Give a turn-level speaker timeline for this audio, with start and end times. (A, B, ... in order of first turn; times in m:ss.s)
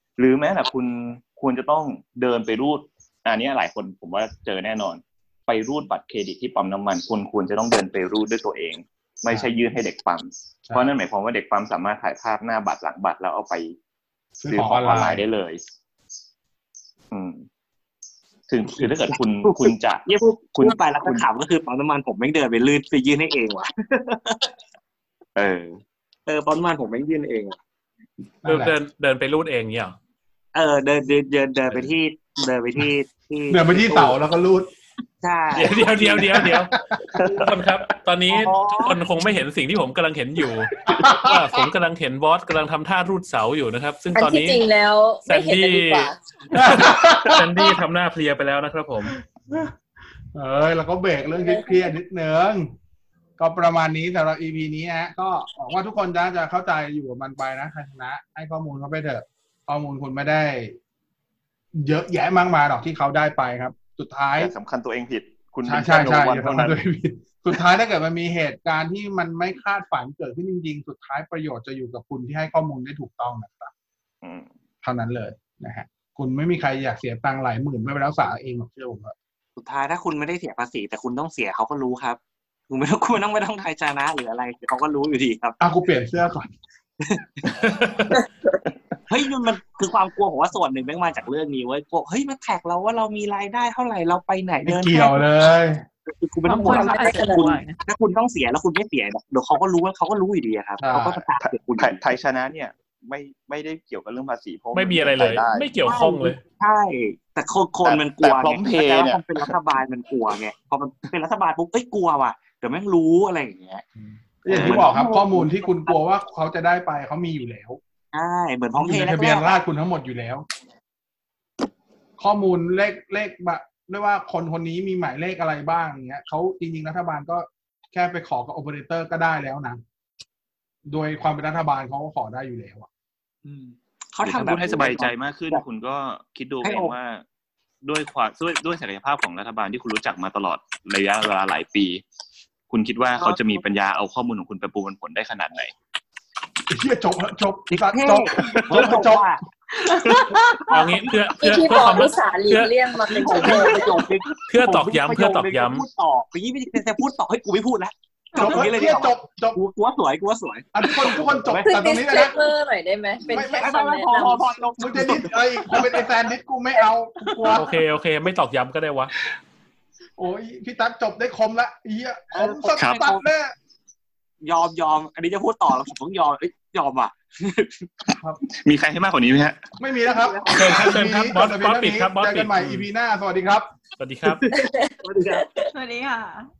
0:00.2-0:13.8 A
0:10.6-0:10.9 B
0:14.4-0:15.2 B
0:14.4-0:15.6 A
0:17.1-0:17.4 A
0:18.5-0:21.2 A
0:18.9-0:24.5 C
0:25.4-0:25.8 A
0:26.2-0:27.6 C
0:28.4-0:28.7 B
0:28.4-0:29.9 D
0:30.5-0:34.2 C
0:33.5-0:34.7 B
0:35.2-0:36.3 C
0:35.5-0:36.7 D
0:36.0-0:37.5 B
0:37.1-0:37.4 A
0:37.3-0:44.6 D
0:38.3-0:39.0 C
0:40.8-0:41.6 B
0:44.1-0:46.2 E
0:45.2-0:49.2 D
0:46.5-0:47.7 B
0:49.1-0:49.7 B
0:50.3-0:52.7 B
0:51.3-0:51.9 E
0:53.4-1:00.8 B
1:01.7-1:04.5 B
1:04.4-1:06.8 A
1:05.6-1:13.7 B
1:14.2-1:14.5 A
1:14.8-1:19.1 B
1:19.6-1:25.6 C
1:25.6-1:26.5 B
1:27.0-1:27.6 C
1:27.5-1:28.2 D
1:29.1-1:35.3 C
1:34.6-1:35.8 B
1:36.0-1:42.0 C
1:36.5-1:37.8 F
1:36.6-1:37.7 E
1:40.8-1:41.2 B
1:41.4-1:45.7 A
1:44.7-1:46.4 D
1:45.8-1:53.9 C
1:47.8-1:49.5 A
1:54.4-1:57.8 B
1:54.5-1:56.0 C
1:54.5-1:54.8 A
1:58.1-1:59.6 C
1:58.7-2:00.4 B
2:02.2-2:09.8 B
2:10.9-2:12.9 B
2:13.4-2:15.6 C
2:14.2-2:17.2 A
2:16.6-2:16.9 C
2:17.8-2:22.0 A
2:22.7-2:25.7 A
2:23.2-2:23.6 C
2:26.7-2:29.2 B
2:27.7-2:32.0 C
2:28.5-2:29.0 A
2:30.1-2:30.4 E
2:30.7-2:32.7 D
2:31.4-2:34.1 E
2:33.0-2:41.7 C
2:34.5-2:35.8 D
2:38.3-2:39.6 B
2:40.7-2:42.4 B
2:41.6-2:44.6 E
2:43.3-2:46.0 C
2:43.3-2:43.8 B
2:44.8-2:47.7 B
2:47.5-2:49.1 D
2:50.2-2:53.5 B
2:52.3-2:53.2 C
2:52.8-2:53.0 A
2:54.4-2:57.9 C
2:58.6-2:59.6 A
2:59.8-3:03.7 B
3:00.1-3:00.9 C
3:00.5-3:02.9 D
3:04.0-3:04.4 D
3:04.2-3:05.5 C
3:04.5-3:05.7 E
3:05.7-3:06.5 F